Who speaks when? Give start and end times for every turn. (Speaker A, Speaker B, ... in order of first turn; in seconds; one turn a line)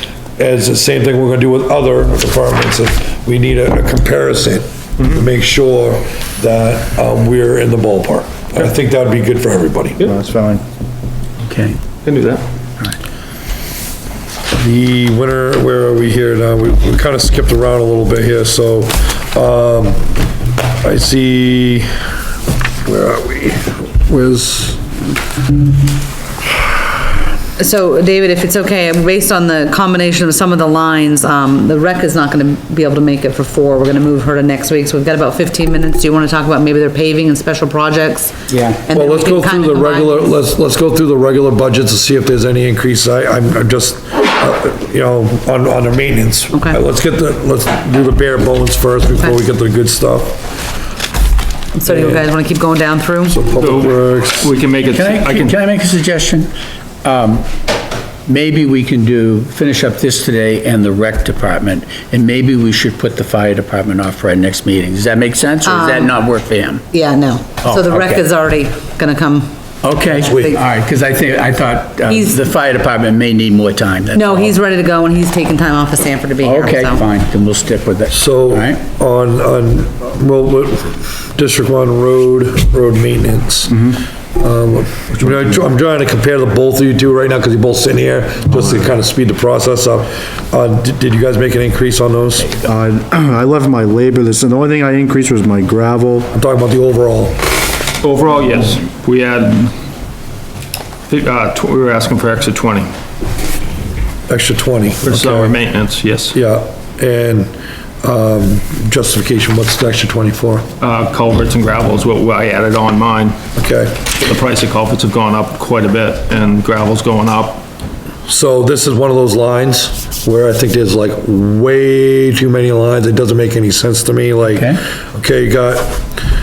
Speaker A: 0.4-10.0
Speaker B: 10.0-10.6
Speaker C: 11.4-11.8
Speaker D: 12.0-12.4
Speaker A: 14.5-20.0
Speaker A: 20.8-21.9
Speaker A: 22.8-24.9
Speaker E: 27.6-38.3
Speaker C: 38.5-38.8
Speaker E: 38.8-40.3
Speaker A: 38.9-50.6
Speaker E: 46.5-46.8
Speaker E: 51.8-53.5
Speaker A: 51.9-52.3
Speaker A: 53.3-54.4
Speaker D: 53.6-55.5
Speaker C: 54.9-56.5
Speaker C: 57.0-57.5
Speaker C: 58.2-66.8
Speaker E: 65.6-66.1
Speaker E: 66.9-69.5
Speaker C: 67.6-68.3
Speaker C: 69.8-74.5
Speaker E: 70.0-70.6
Speaker E: 72.0-72.3
Speaker E: 74.1-77.0
Speaker C: 76.4-78.8
Speaker A: 78.1-92.6
Speaker B: 92.6-96.3
Speaker A: 96.3-97.6
Speaker D: 98.0-99.7
Speaker A: 98.3-98.8
Speaker D: 101.1-102.9
Speaker A: 104.3-105.5
Speaker D: 105.1-106.3
Speaker A: 106.3-107.5
Speaker A: 108.0-110.7
Speaker D: 110.8-113.4
Speaker A: 113.5-114.1
Speaker D: 114.2-117.6
Speaker A: 118.3-126.0
Speaker C: 124.5-124.8